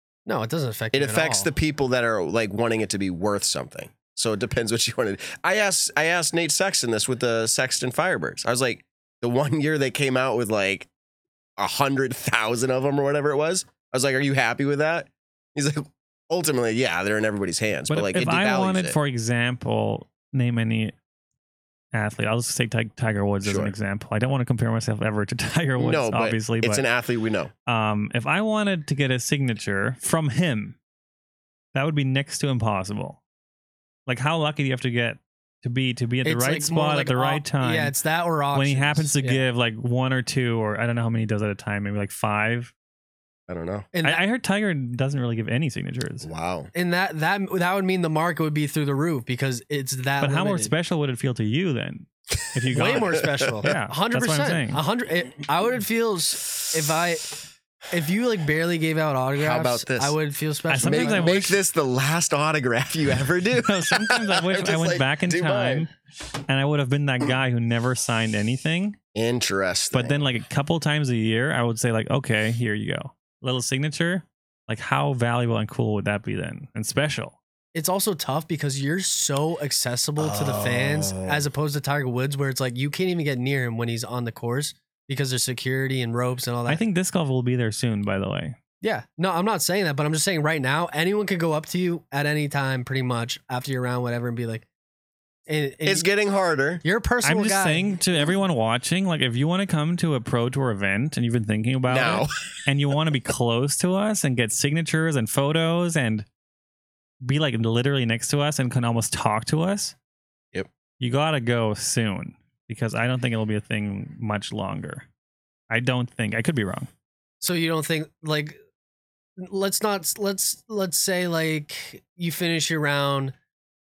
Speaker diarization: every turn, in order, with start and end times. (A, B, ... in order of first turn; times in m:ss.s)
0:00.3-0:01.5 A
0:00.9-0:10.9 B
0:11.6-0:19.0 B
0:17.9-0:20.9 C
0:21.9-0:26.8 C
0:23.4-0:23.7 B
0:25.8-0:27.5 B
0:27.7-0:30.8 C
0:31.7-0:33.2 C
0:34.1-0:37.9 C
0:36.2-0:39.4 A
0:38.5-0:42.7 C
0:43.5-0:43.9 B
0:43.9-0:44.2 A
0:44.0-0:46.3 C
0:46.2-0:46.7 B
0:46.7-0:50.7 A
0:50.2-0:54.8 C
0:52.6-0:53.6 B
0:52.7-1:01.4 A
0:59.4-1:00.2 B
1:00.7-1:01.6 C
1:00.8-1:05.9 B
1:03.6-1:05.9 C
1:06.5-1:09.0 C
1:09.2-1:10.2 B
1:09.9-1:17.4 C
1:17.7-1:26.8 A
1:20.2-1:21.4 B
1:26.7-1:28.6 C
1:28.8-1:34.7 A
1:35.5-1:36.1 A
1:35.8-1:36.8 B
1:36.8-1:38.0 A
1:37.2-1:46.3 C
1:41.9-1:42.3 B
1:47.2-1:50.0 C
1:51.0-1:55.1 C
1:55.7-1:56.9 C
1:57.4-1:58.6 A
1:59.4-2:03.3 A